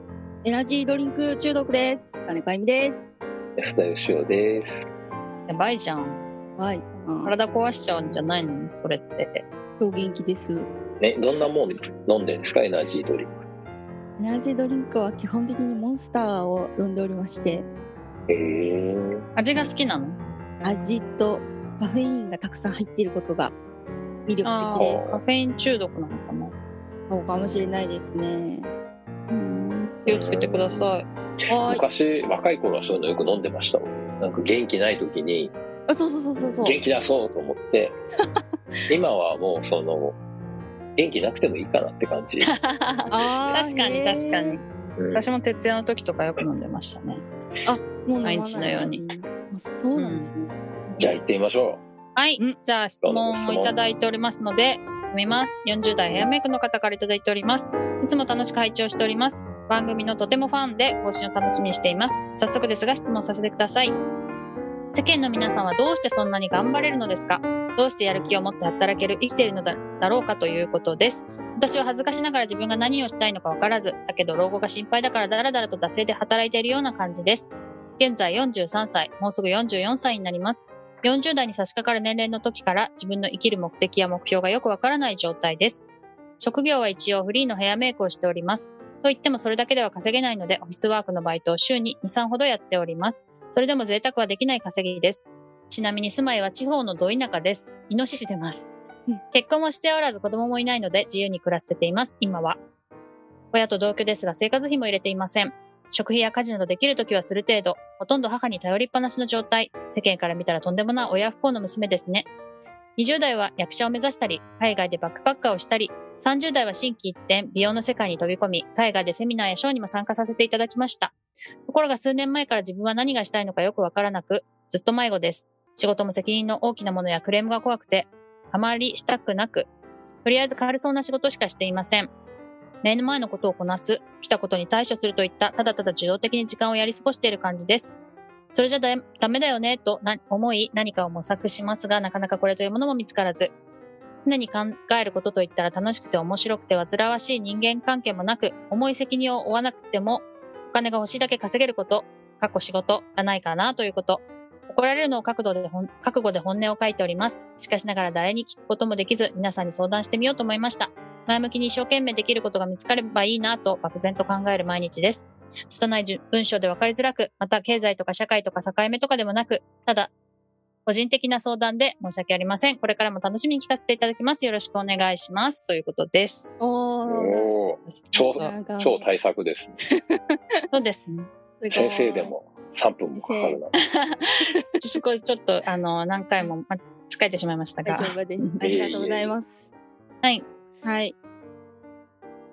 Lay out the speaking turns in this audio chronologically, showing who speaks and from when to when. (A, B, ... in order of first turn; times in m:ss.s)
0:00.4-0:03.0 A
0:03.6-0:04.8 B
0:05.5-0:06.2 C
0:06.6-0:07.3 A
0:07.2-0:09.4 C
0:09.8-0:10.7 A
0:11.0-0:13.3 B
0:14.2-0:17.6 A
0:18.3-0:19.2 B
0:19.4-0:20.2 C
0:20.6-0:23.5 A
0:24.2-0:25.0 A
0:24.4-0:26.5 C
0:24.8-0:25.2 B
0:27.1-0:28.7 A
0:29.3-0:31.0 C
0:30.1-0:30.9 B
0:31.5-0:35.5 B
0:31.5-0:31.8 A
0:35.9-0:36.8 A
0:36.4-0:38.0 B
0:38.9-0:40.2 B
0:41.0-0:42.5 B
0:42.4-0:47.2 C
0:43.1-0:44.6 A
0:45.0-0:45.2 B
0:47.6-0:50.5 A
0:48.2-0:49.0 C
0:49.9-0:50.3 C
0:51.0-0:51.8 B
0:52.2-1:03.9 C
0:53.0-0:53.7 B
1:04.9-1:25.9 C
1:26.4-1:38.7 C
1:39.3-1:42.6 C
1:43.5-1:52.3 C
1:53.0-2:01.1 C
2:01.6-2:09.7 C
2:10.2-2:12.1 C
2:12.8-2:17.9 C
2:18.5-2:23.5 C
2:24.2-2:50.1 C
2:50.8-2:56.5 C
2:56.6-2:57.5 A
2:57.1-2:59.8 B
2:57.8-2:58.5 C
2:58.1-2:59.1 A
3:00.7-3:01.3 C
3:01.6-3:02.3 A
3:01.7-3:03.7 B
3:03.2-3:03.6 A
3:03.7-3:08.6 C
3:04.4-3:05.0 A
3:07.8-3:09.7 A
3:08.6-3:09.3 B
3:10.8-3:11.1 A